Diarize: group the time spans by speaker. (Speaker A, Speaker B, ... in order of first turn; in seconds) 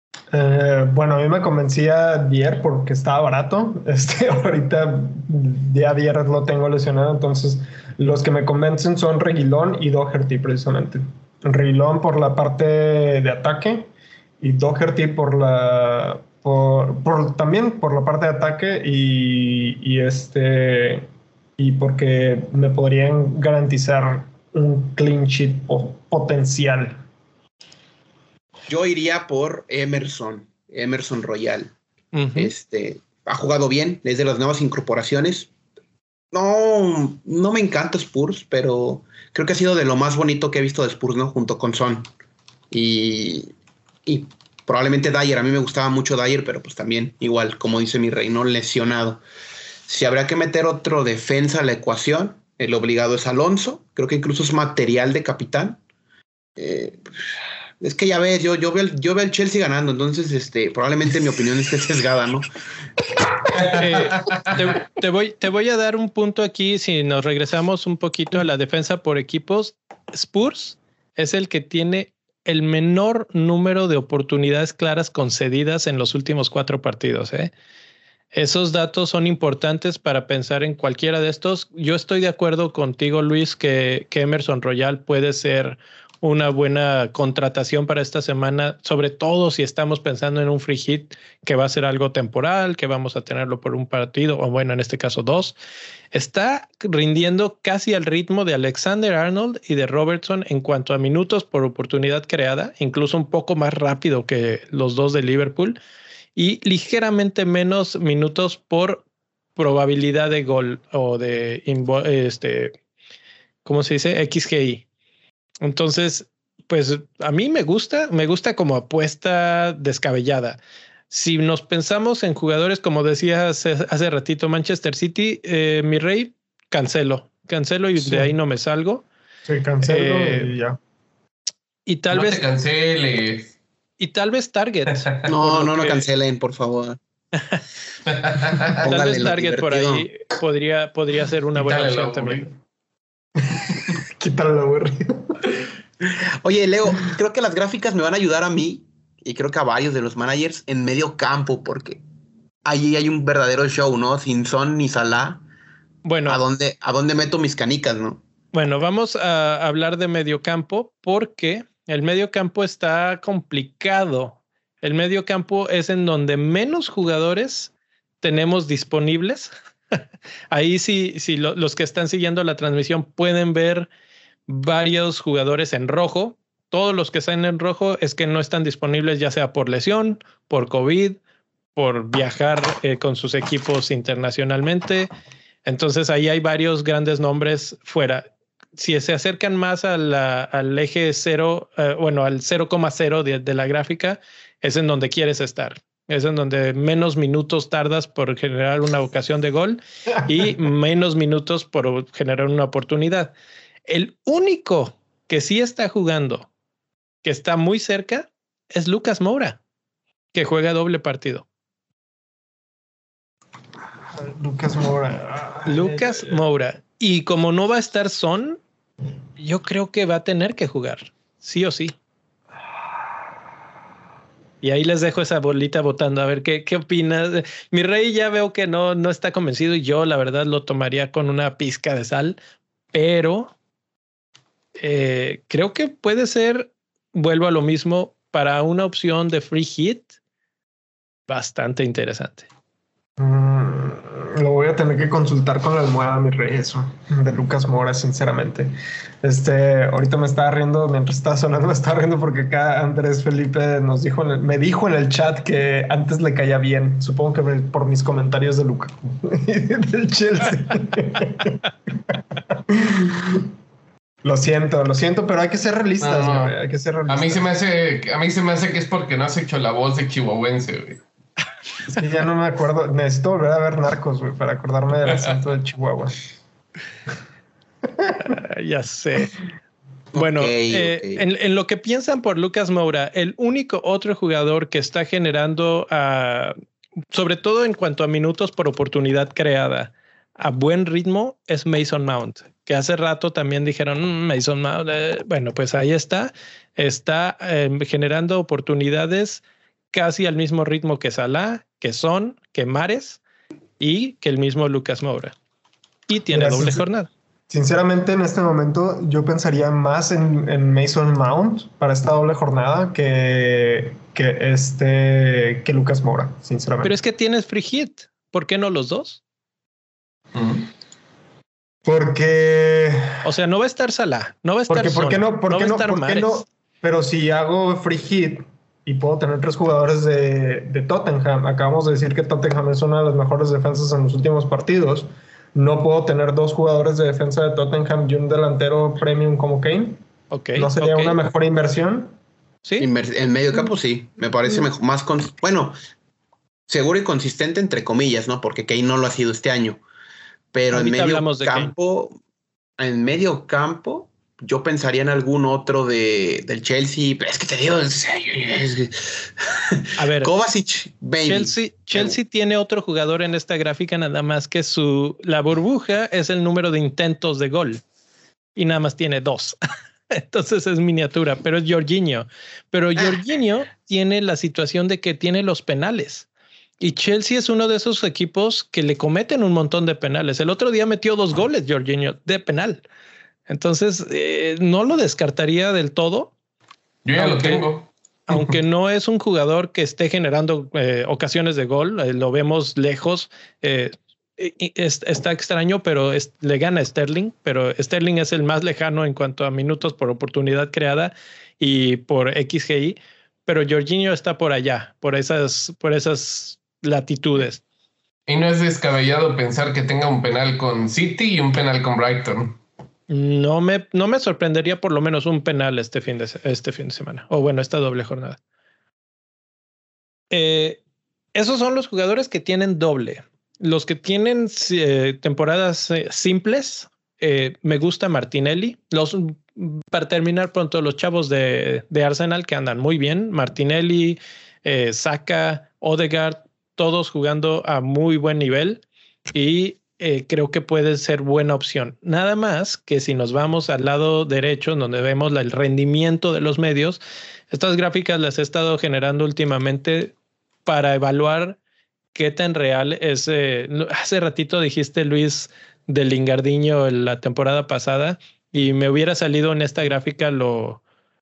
Speaker A: 0.3-27.1, 128.0-128.3, 129.5-130.8, 143.4-145.1, 214.1-216.4, 243.2-263.5, 264.2-267.5, 271.9-276.2, 306.3-306.8, 307.5-316.9, 321.9-323.2, 324.7-340.0, 340.6-342.1
Speaker B: 28.7-31.8, 32.4-35.5, 36.3-42.1, 42.7-43.5, 44.1-49.2, 49.9-55.8, 56.6-57.0, 57.8-62.5, 135.3-137.0, 138.5-140.1, 146.4-152.0, 152.7-155.4, 156.3-158.2, 280.1-281.2, 342.8-345.8, 346.7-349.8, 350.5-352.2, 352.8-362.1
Speaker C: 32.1-32.5, 63.7-77.5, 78.3-95.5, 96.1-105.8, 106.4-109.0, 109.6-112.7, 113.7-114.8, 115.6-129.1, 129.8-130.5, 131.9-132.4, 134.0-136.1, 138.8-142.5, 156.1-156.4, 158.5-167.7, 168.2-170.0, 170.5-173.9, 174.5-181.2, 181.8-185.1, 185.7-203.3, 203.9-206.5, 207.2-209.6, 210.3-211.5, 215.7-218.6, 219.4-221.9, 224.6-232.4, 232.9-233.5, 234.8-240.1, 241.3-242.5, 278.2-279.3, 280.1-286.6, 287.1-303.2, 303.8-305.4, 306.1-307.1, 316.8-319.2, 323.2-326.4, 340.3-341.2, 350.7-351.7, 360.0-360.3, 361.2-367.8, 368.6-369.6, 370.1-376.3, 376.8-382.9, 383.5-386.3, 387.2-387.7, 388.3-407.6, 413.1-418.4, 420.3-420.8, 421.4-447.0, 447.5-450.1, 450.7-451.6, 452.1-460.8
Speaker D: 63.7-64.5, 132.1-133.5, 138.1-138.7, 141.6-142.5, 266.0-266.6, 267.1-271.0, 320.3-320.7, 387.1-387.9, 408.3-412.6